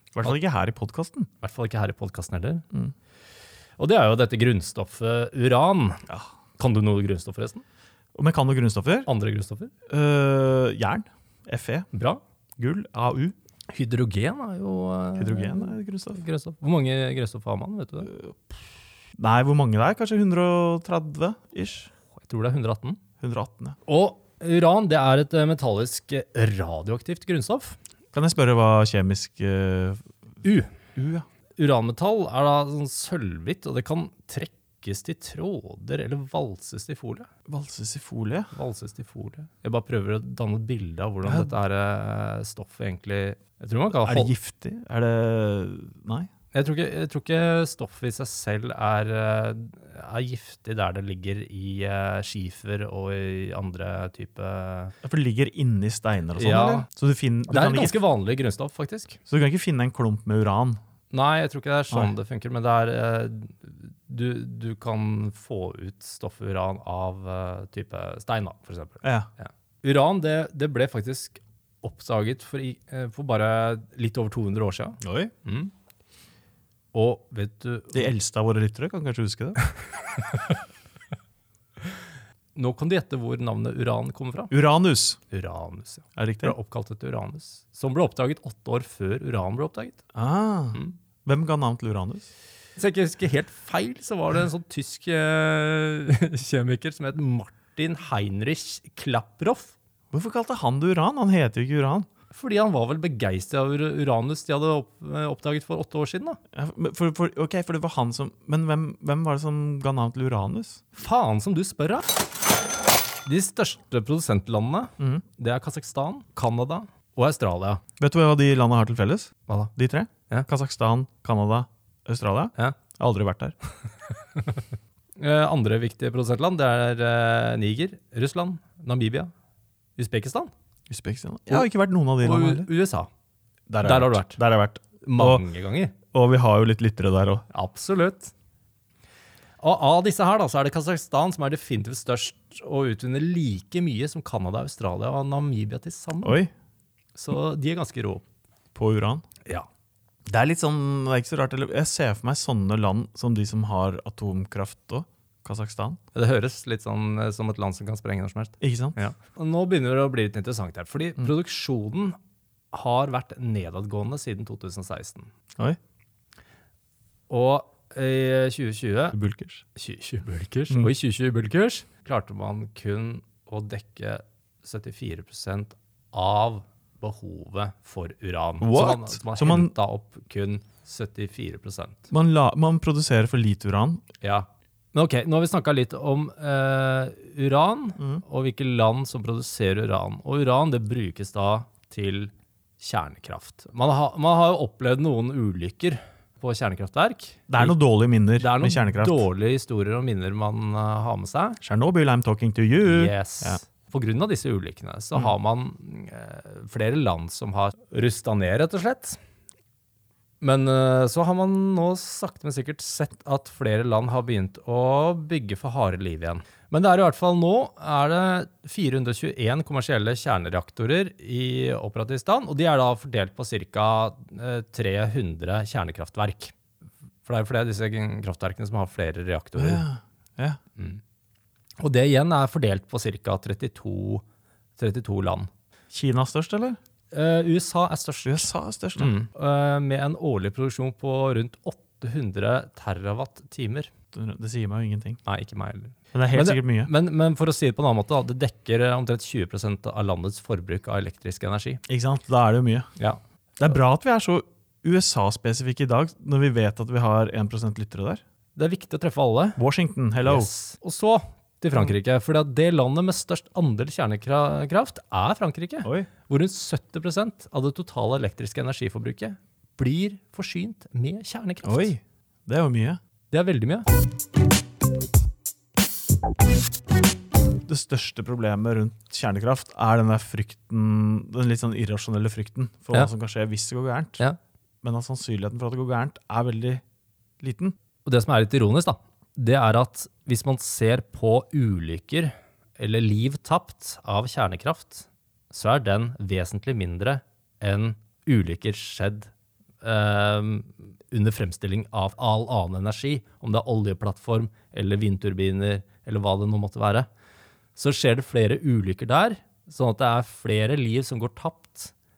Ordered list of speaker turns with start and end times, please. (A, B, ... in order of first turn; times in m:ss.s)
0:00.1-0:01.3 A
0:01.4-0:02.6 B
0:03.8-0:06.0 B
0:06.6-0:07.6 B
0:08.1-0:09.1 A
0:09.1-0:09.7 B
0:09.9-0:11.9 A
0:11.9-0:12.2 B
0:12.6-0:13.3 A
0:13.7-0:18.1 B
0:15.2-0:16.2 A
0:19.2-0:21.9 A
0:22.2-0:23.0 B
0:23.2-0:23.8 A
0:23.8-0:27.8 B
0:28.1-0:30.0 A
0:30.4-0:30.7 B
0:30.9-0:31.2 A
0:31.6-0:37.3 B
0:37.5-0:38.5 A
0:38.5-0:44.3 B
0:41.2-0:41.5 A
0:43.9-0:46.3 A
0:46.5-0:54.9 B
0:55.0-0:58.0 A
0:56.4-0:56.9 B
0:57.5-0:59.2 B
0:59.3-1:00.8 A
1:01.1-1:15.7 B
1:09.0-1:09.3 A
1:15.0-1:15.3 A
1:16.9-1:18.1 B
1:17.9-1:19.6 A
1:20.3-1:20.5 B
1:22.5-1:24.5 B
1:24.5-1:25.2 A
1:25.3-1:30.0 B
1:26.2-1:26.5 A
1:30.1-1:32.3 A
1:32.8-1:39.7 B
1:40.1-1:42.1 A
1:42.3-1:46.4 B
1:46.5-1:50.8 A
1:50.9-1:52.0 B
1:53.2-1:57.8 B
1:55.0-1:55.2 A
1:58.0-2:03.5 A
2:05.2-2:09.3 B
2:10.0-2:10.5 B
2:10.9-2:12.7 A
2:12.2-2:13.1 B
2:13.7-2:15.4 A
2:13.8-2:14.4 B
2:15.0-2:15.9 B
2:16.1-2:17.4 A
2:17.5-2:18.3 B
2:19.6-2:26.4 B
2:26.2-2:26.5 A
2:27.2-2:28.2 B
2:28.7-2:29.2 A
2:30.2-2:36.0 A
2:36.1-2:42.2 B
2:38.6-2:39.0 A
2:42.7-2:45.3 B
2:47.3-2:49.2 B
2:49.1-2:49.6 A
2:49.7-3:02.1 B
2:58.6-2:59.7 A
3:02.1-3:04.0 A
3:04.2-3:17.7 B
3:17.5-3:19.2 A
3:18.4-3:21.6 B
3:21.6-3:23.6 A
3:22.8-3:29.2 B
3:30.4-3:46.5 B
3:47.2-3:49.8 B
3:49.6-3:50.6 A
3:51.8-3:54.2 B
3:54.8-3:55.5 B
3:55.9-3:56.8 A
3:57.1-4:03.9 B
3:58.2-3:59.1 A
4:04.1-4:05.2 A
4:05.2-4:11.8 B
4:06.1-4:06.9 A
4:11.9-4:12.9 A
4:13.6-4:18.2 A
4:18.6-4:19.6 B
4:19.6-4:20.5 A
4:20.2-4:31.9 B
4:31.6-4:33.0 A
4:33.3-4:33.8 B
4:37.6-4:44.2 A
4:44.8-4:46.8 A
4:47.4-4:47.8 A
4:48.0-4:59.3 B
4:59.8-5:07.1 B
5:07.8-5:11.9 B